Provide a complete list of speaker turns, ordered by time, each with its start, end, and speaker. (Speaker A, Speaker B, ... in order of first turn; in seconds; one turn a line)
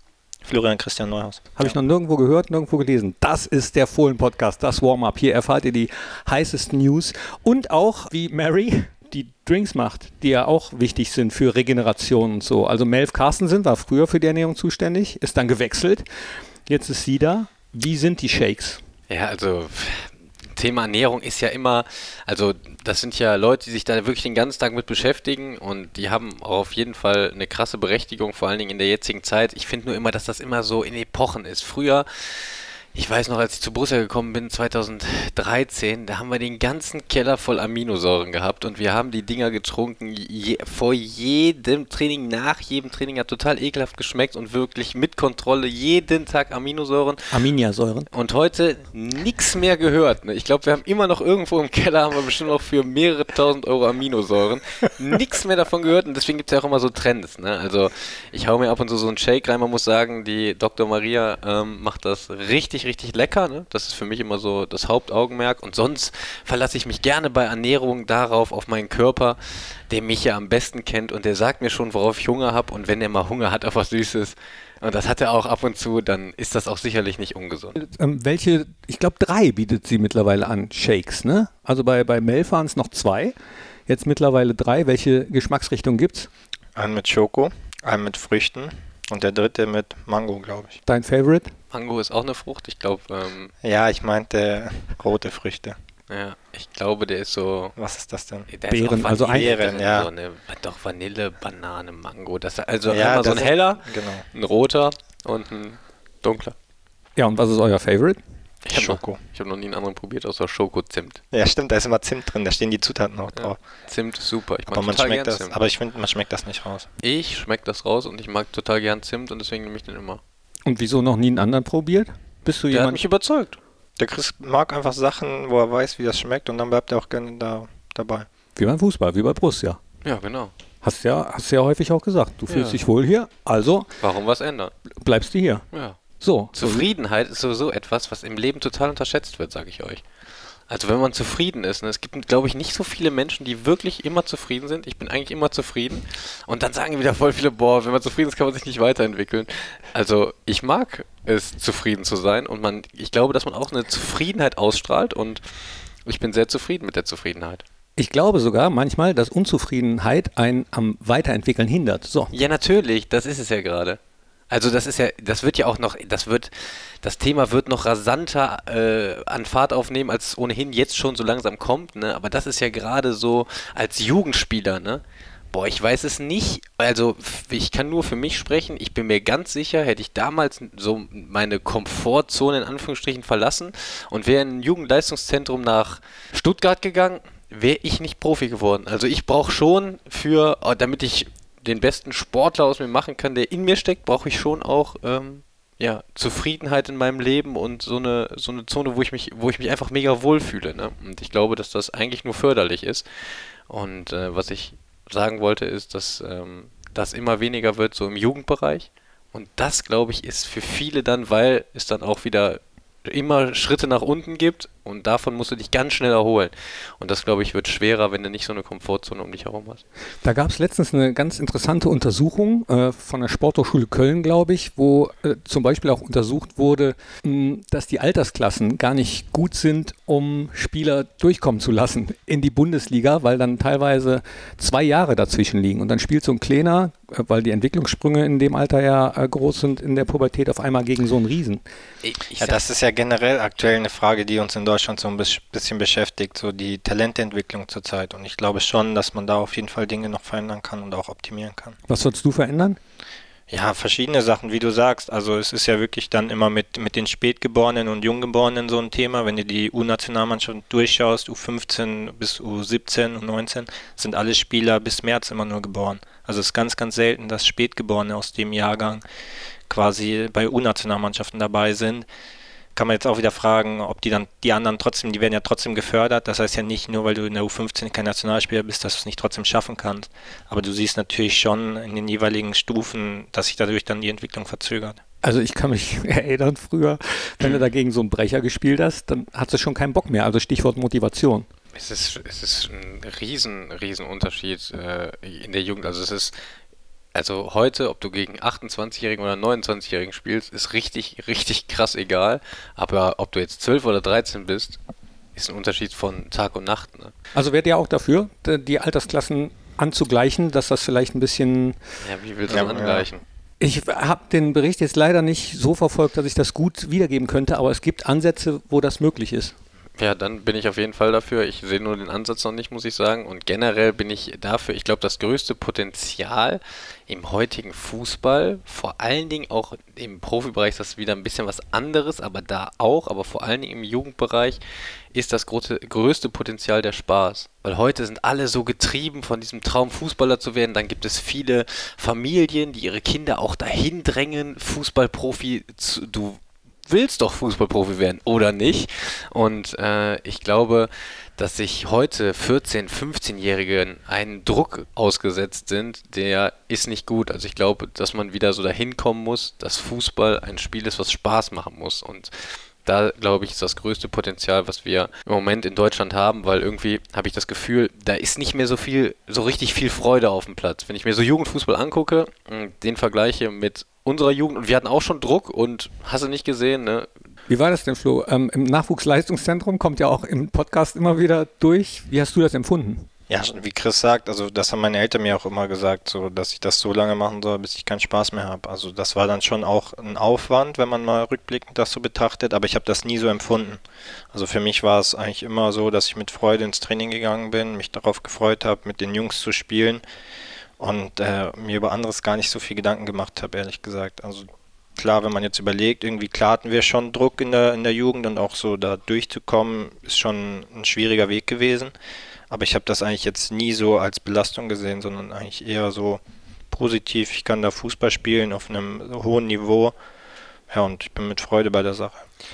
Speaker A: 0.4-1.7
Speaker B: 1.6-16.0
Speaker B: 16.7-18.8
Speaker C: 19.1-47.3
Speaker B: 47.3-48.1
Speaker C: 48.1-77.8
Speaker B: 77.8-83.3
Speaker B: 83.9-86.3
Speaker A: 86.8-90.8
Speaker B: 90.8-91.5
Speaker C: 91.7-93.5
Speaker A: 93.6-95.8
Speaker C: 96.1-97.7
Speaker A: 97.8-98.5
Speaker C: 98.5-106.5
Speaker B: 98.7-99.5
Speaker A: 99.2-100.1
Speaker A: 102.9-104.2
Speaker B: 107.2-108.2
Speaker C: 108.7-111.2
Speaker A: 108.7-109.2
Speaker A: 111.3-113.6
Speaker C: 113.3-115.5
Speaker A: 114.7-116.9
Speaker C: 117.0-120.2
Speaker B: 120.7-123.0
Speaker C: 122.7-123.6
Speaker A: 124.0-128.3
Speaker B: 128.6-129.8
Speaker C: 130.0-130.5
Speaker B: 130.8-133.9
Speaker C: 132.5-132.8
Speaker C: 134.0-134.7
Speaker B: 134.9-135.6
Speaker C: 135.7-136.0
Speaker B: 136.2-136.9
Speaker C: 136.5-140.0
Speaker C: 140.7-155.4
Speaker C: 156.1-157.6
Speaker B: 158.0-162.3
Speaker C: 162.3-164.0
Speaker C: 164.5-203.1
Speaker C: 203.7-219.8
Speaker B: 220.2-241.6
Speaker C: 242.0-242.6
Speaker A: 242.4-251.8
Speaker B: 251.9-252.8
Speaker A: 253.5-269.0
Speaker A: 269.7-272.1
Speaker A: 272.7-285.0
Speaker B: 285.2-291.5
Speaker C: 291.7-296.4
Speaker C: 297.1-304.8
Speaker C: 305.4-307.1
Speaker B: 307.3-311.8
Speaker C: 312.0-313.2
Speaker A: 312.5-313.1
Speaker B: 313.6-319.5
Speaker C: 320.0-334.6
Speaker C: 335.1-377.1
Speaker B: 377.5-383.1
Speaker A: 383.3-393.8
Speaker A: 394.3-400.0
Speaker A: 400.8-411.9
Speaker A: 412.5-419.9
Speaker A: 420.7-422.2